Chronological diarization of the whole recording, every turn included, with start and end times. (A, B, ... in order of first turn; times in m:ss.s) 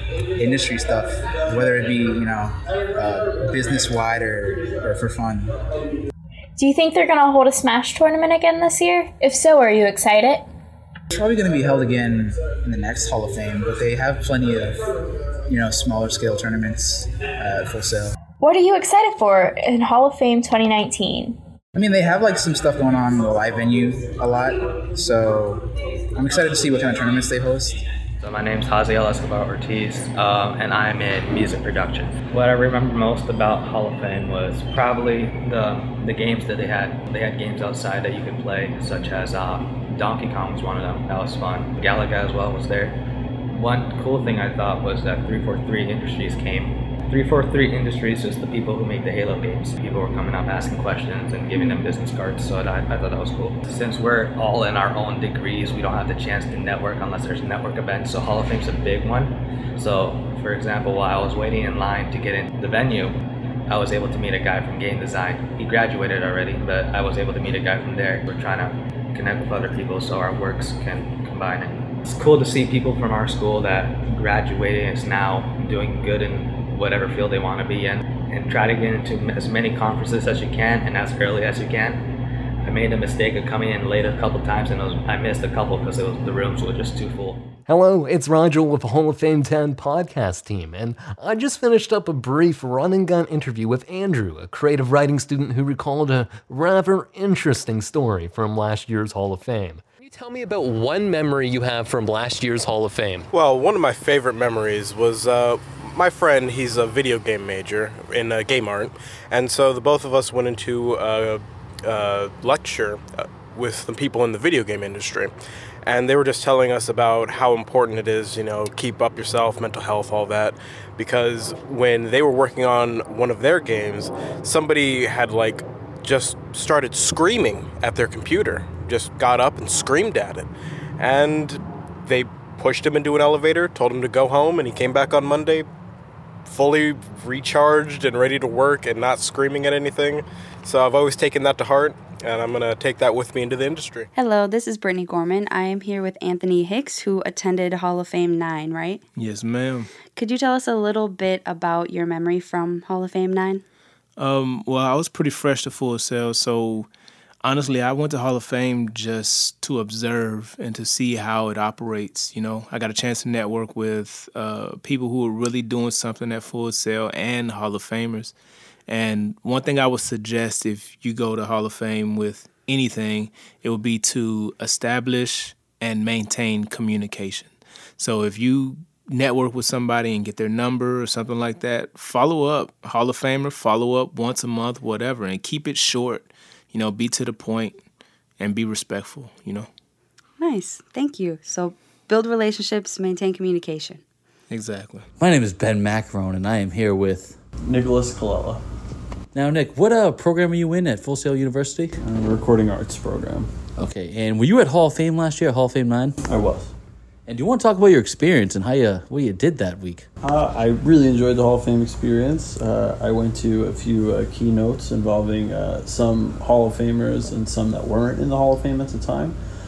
0:00.4-0:05.5 A
0:06.6-0:10.4 B
0:11.1-0:14.8 A
0:15.5-0:18.1 A
0:18.4-0:21.3 B
0:21.7-0:25.6 A
0:26.2-0:27.8 A
0:28.2-0:43.0 C
0:43.5-1:03.1 C
1:03.7-1:22.0 C
1:22.6-1:27.4 C
1:27.7-1:43.2 D
1:43.3-1:55.3 E
1:55.8-2:10.5 E
2:11.0-2:15.7 E
2:16.5-2:24.0 E
2:24.2-2:28.9 F
2:29.2-2:29.9 G
2:30.2-2:33.6 F
2:34.2-2:36.9 G
2:37.4-2:48.3 G
2:48.9-3:07.8 G
3:08.4-3:09.7 G
3:10.4-3:14.0 F
3:14.5-3:15.0 G
3:15.2-3:17.4 H
3:17.6-3:18.6 I
3:19.3-3:21.9 H
3:22.0-3:23.5 I
3:23.8-3:26.1 H
3:26.2-3:26.7 I
3:27.3-3:30.0 H
3:30.2-3:39.4 I